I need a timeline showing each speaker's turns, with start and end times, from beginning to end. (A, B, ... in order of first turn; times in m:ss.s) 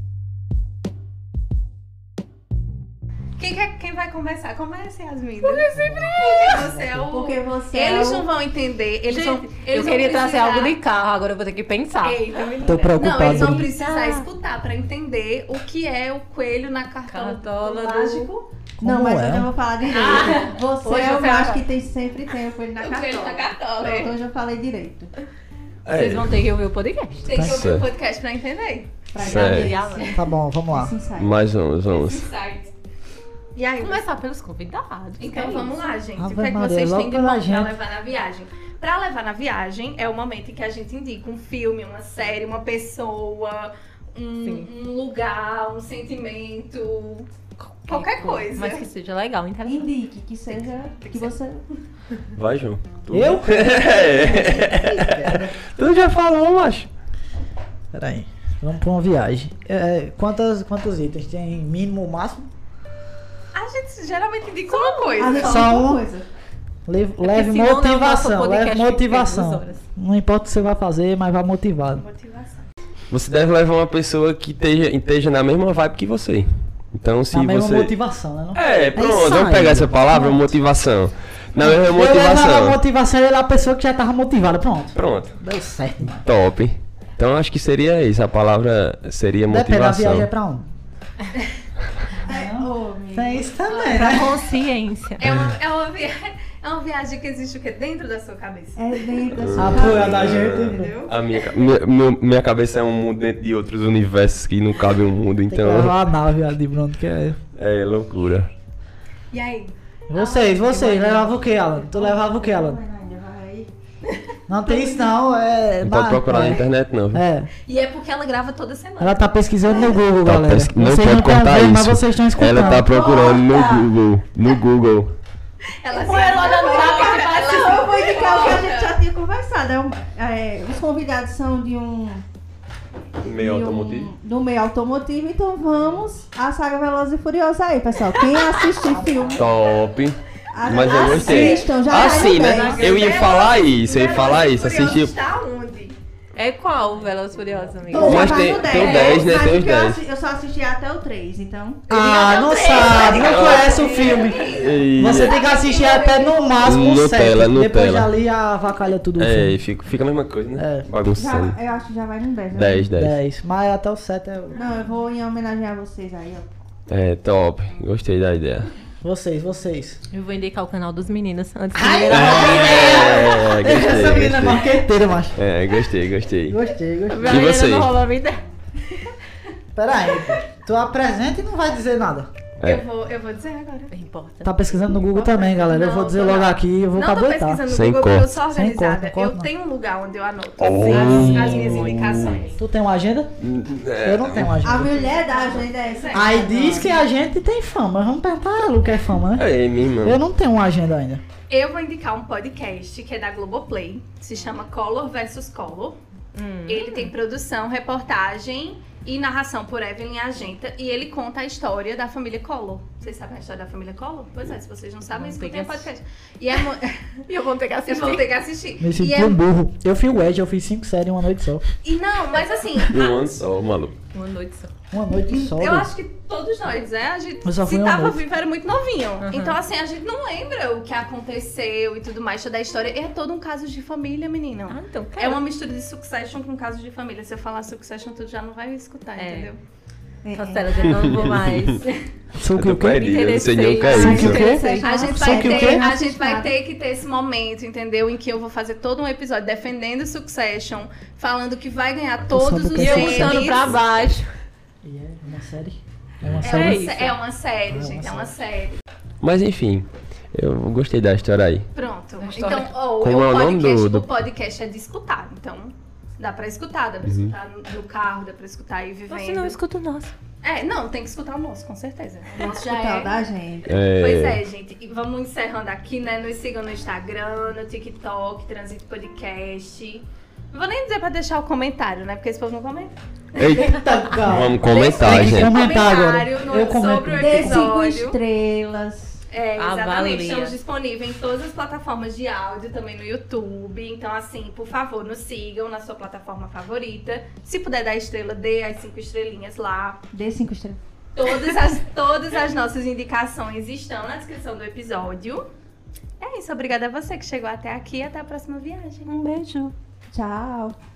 0:03.4-0:10.8 A
0:05.4-0:06.7 B
0:05.8-0:06.1 C
0:07.0-0:08.3 D
0:09.1-0:12.2 B
0:12.0-0:18.5 A
0:12.7-0:13.7 C
0:13.0-0:13.6 D
0:13.3-0:14.3 B
0:17.1-0:18.3 B
0:18.8-0:19.5 C
0:18.8-0:25.1 D
0:19.8-0:21.6 A
0:20.8-0:21.6 B
0:22.8-0:24.2 A
0:25.9-0:26.3 E
0:25.9-0:27.3 B
0:27.2-0:29.0 A
0:27.4-0:27.9 E
0:29.1-0:31.3 D
0:29.2-0:30.2 B
0:29.2-0:29.7 E
0:30.2-0:31.0 C
0:31.2-0:32.3 E
0:31.9-0:32.7 A
0:33.6-0:34.1 A
0:33.8-0:35.8 B
0:35.2-0:47.3 A
0:36.2-0:37.7 C
0:44.4-0:44.7 B
0:47.8-0:49.9 B
0:47.8-0:48.8 A
0:49.6-0:51.6 D
0:52.4-0:56.9 E
0:53.1-0:54.6 C
0:53.8-0:55.6 D
0:57.9-1:02.5 C
1:03.5-1:05.9 A
1:04.7-1:06.3 D
1:05.2-1:06.0 C
1:06.9-1:12.0 C
1:07.2-1:09.8 B
1:12.0-1:12.6 A
1:13.1-1:17.9 E
1:17.3-1:20.5 C
1:18.5-1:22.8 E
1:21.6-1:26.2 C
1:25.0-1:25.4 E
1:26.2-1:30.3 E
1:29.5-1:30.7 C
1:32.2-1:33.6 D
1:32.2-1:34.3 C
1:33.7-1:34.3 A
1:33.8-1:35.2 B
1:35.2-1:39.3 A
1:38.8-1:41.2 D
1:39.4-1:46.0 E
1:39.6-1:40.9 C
1:45.5-1:47.4 C
1:47.6-1:48.5 E
1:49.3-1:51.4 A
1:50.1-1:52.8 C
1:51.8-1:53.7 D
1:54.1-1:55.1 A
1:54.5-1:56.6 C
1:55.8-1:57.2 E
1:57.1-1:57.5 C
1:57.7-2:00.0 A
1:59.0-2:02.9 C
2:00.2-2:05.1 E
2:02.8-2:03.9 D
2:05.8-2:09.0 A
2:05.9-2:12.2 D
2:06.1-2:07.9 B
2:13.2-2:19.5 D
2:13.2-2:14.1 E
2:18.9-2:19.4 C
2:19.4-2:25.1 E
2:20.5-2:23.2 D
2:20.8-2:26.0 A
2:26.4-2:28.8 B
2:27.9-2:31.9 D
2:28.0-2:30.0 E
2:28.7-2:29.3 A
2:31.9-2:39.6 C
2:31.9-2:36.9 A
2:33.1-2:33.9 E
2:34.5-2:35.4 E
2:36.6-2:38.1 E
2:39.2-2:41.6 E
2:40.6-2:40.9 C
2:41.1-2:42.9 D
2:42.5-2:43.2 E
2:43.0-2:44.6 C
2:44.5-2:46.5 D
2:46.9-2:48.7 E
2:49.0-2:50.0 C
2:50.1-2:53.3 B
2:51.8-2:55.4 C
2:52.1-2:54.8 E
2:55.4-2:56.6 E
2:56.5-2:57.5 C
2:57.1-2:58.4 B
2:57.2-2:58.0 E
2:59.8-3:02.3 C
3:02.6-3:02.8 E
3:02.6-3:03.9 A
3:03.9-3:04.8 B
3:04.4-3:07.6 C
3:05.1-3:12.6 A
3:07.7-3:08.3 E
3:08.5-3:09.5 C
3:10.6-3:12.4 E
3:10.9-3:12.0 C
3:10.9-3:12.5 B
3:12.6-3:13.3 C
3:13.4-3:14.6 E
3:14.0-3:15.0 C
3:14.6-3:17.0 D
3:15.0-3:16.4 A
3:16.1-3:19.5 C
3:19.3-3:20.2 E
3:20.0-3:21.2 C
3:21.5-3:26.0 A
3:26.3-3:27.1 B
3:26.7-3:37.1 A
3:35.1-3:35.9 B
3:37.3-3:38.3 B
3:37.9-3:39.4 A
3:38.8-3:41.6 C
3:41.8-3:43.3 A
3:42.9-3:44.0 E
3:44.1-3:44.7 B
3:44.9-3:45.9 C
3:45.3-3:59.6 A
3:47.4-3:48.2 C
3:49.2-3:49.6 B
3:54.7-3:55.4 B
3:59.2-3:59.5 B
4:00.2-4:01.2 D
4:00.3-4:01.9 B
4:00.9-4:01.8 E
4:02.4-4:03.2 C
4:02.6-4:04.4 E
4:02.9-4:04.8 B
4:03.8-4:06.5 D
4:03.9-4:05.8 C
4:04.2-4:13.8 A
4:12.3-4:13.6 C
4:12.8-4:14.3 B
4:14.8-4:17.2 C
4:16.4-4:18.8 A
4:16.4-4:17.1 B
4:17.7-4:18.3 C
4:19.2-4:21.7 E
4:21.8-4:29.6 A
4:22.2-4:22.7 B
4:23.0-4:24.1 E
4:27.0-4:27.3 E
4:29.1-4:30.1 B
4:30.4-4:33.2 A
4:32.4-4:33.7 D
4:33.7-4:34.4 E
4:33.8-4:42.9 A
4:43.4-4:45.6 E
4:43.5-4:47.7 C
4:44.6-4:48.2 A
4:47.2-4:49.2 D
4:49.3-5:00.0 A
4:49.6-4:50.6 B
5:00.1-5:00.8 D
5:01.2-5:05.4 A
5:06.2-5:09.1 A
5:09.1-5:09.7 B
5:10.1-5:10.8 D